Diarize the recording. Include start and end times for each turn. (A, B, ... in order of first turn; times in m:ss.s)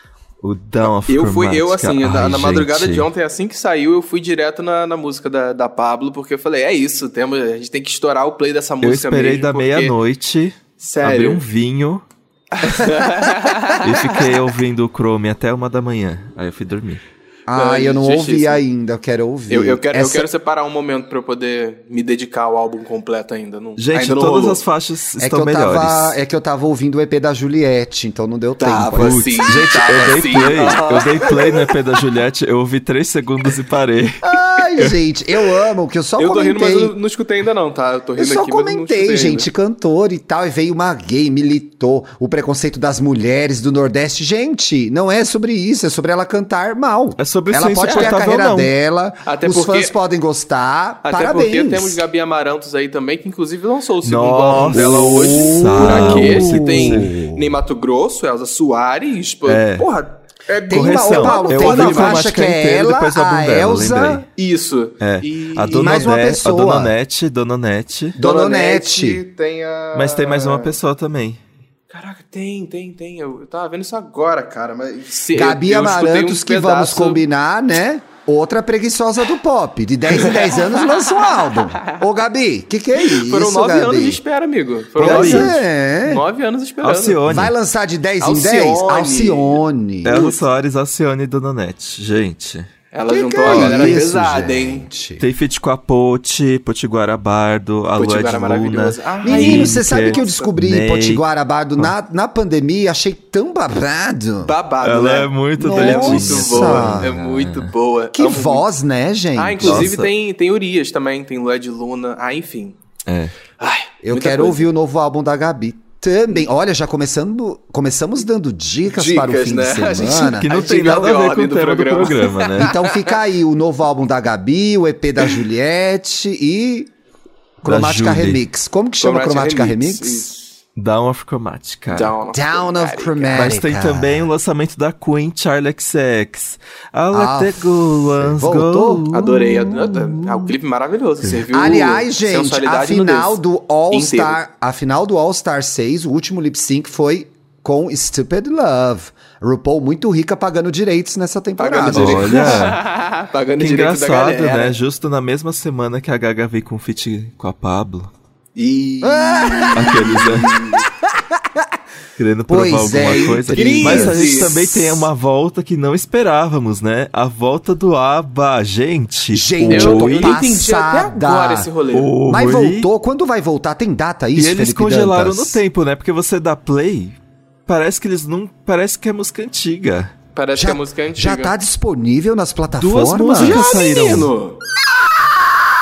0:00.4-0:03.1 A
0:00.9-0:10.0 B
0:08.8-0:12.0 A
0:10.8-0:11.4 B
0:12.6-0:14.2 B
0:13.7-0:17.0 A
0:17.5-0:20.3 C
0:17.5-0:18.6 B
0:19.5-0:24.6 B
0:23.8-0:26.2 A
0:25.2-0:29.6 C
0:28.6-0:31.6 B
0:28.9-0:34.9 A
0:34.2-0:36.9 C
0:36.2-0:39.5 B
0:38.2-0:52.0 C
0:47.2-0:48.7 A
0:47.9-0:48.1 B
0:49.2-0:50.0 B
0:51.0-1:02.3 B
0:54.0-0:57.2 A
0:55.2-0:57.6 C
0:59.5-0:59.9 A
1:00.6-1:04.2 C
1:00.7-1:04.2 A
1:04.4-1:06.1 B
1:05.0-1:08.2 A
1:05.7-1:06.9 C
1:08.2-1:09.2 C
1:08.2-1:10.7 B
1:09.9-1:11.4 A
1:11.9-1:17.2 B
1:15.3-1:24.2 C
1:20.1-1:21.0 B
1:23.0-1:27.2 B
1:25.0-1:26.2 C
1:25.0-1:25.6 A
1:26.8-1:27.5 A
1:27.3-1:30.2 C
1:28.2-1:30.4 B
1:30.0-1:32.7 A
1:32.9-1:34.9 B
1:33.1-1:35.2 C
1:33.4-1:34.0 A
1:35.2-1:41.2 A
1:38.0-1:40.5 B
1:39.2-1:44.5 C
1:44.4-1:48.6 B
1:44.8-1:47.7 A
1:45.6-1:47.2 C
1:48.1-1:50.0 C
1:49.4-1:52.8 B
1:49.6-1:50.1 A
1:53.1-1:53.3 A
1:53.6-1:54.6 B
1:54.0-2:00.5 C
1:58.9-2:03.1 B
2:00.0-2:02.8 A
2:02.6-2:06.9 C
2:07.6-2:10.3 C
2:07.6-2:08.4 A
2:09.0-2:10.6 B
2:10.8-2:12.1 A
2:11.9-2:13.5 B
2:12.3-2:14.3 C
2:13.3-2:19.6 A
2:17.1-2:20.5 C
2:19.1-2:24.4 B
2:21.5-2:32.7 C
2:31.6-2:34.8 B
2:31.9-2:32.8 A
2:33.6-2:38.1 A
2:38.6-2:40.8 B
2:39.0-2:41.7 C
2:39.7-2:40.6 A
2:42.2-2:50.4 A
2:42.5-2:45.0 C
2:43.5-2:44.7 B
2:49.3-2:51.7 C
2:49.7-2:52.1 B
2:51.9-2:52.9 A
2:52.3-2:55.6 C
2:54.4-2:57.2 A
2:57.7-3:00.1 A
3:00.4-3:01.5 B
3:00.6-3:03.7 C
3:02.8-3:04.3 A
3:03.4-3:04.6 B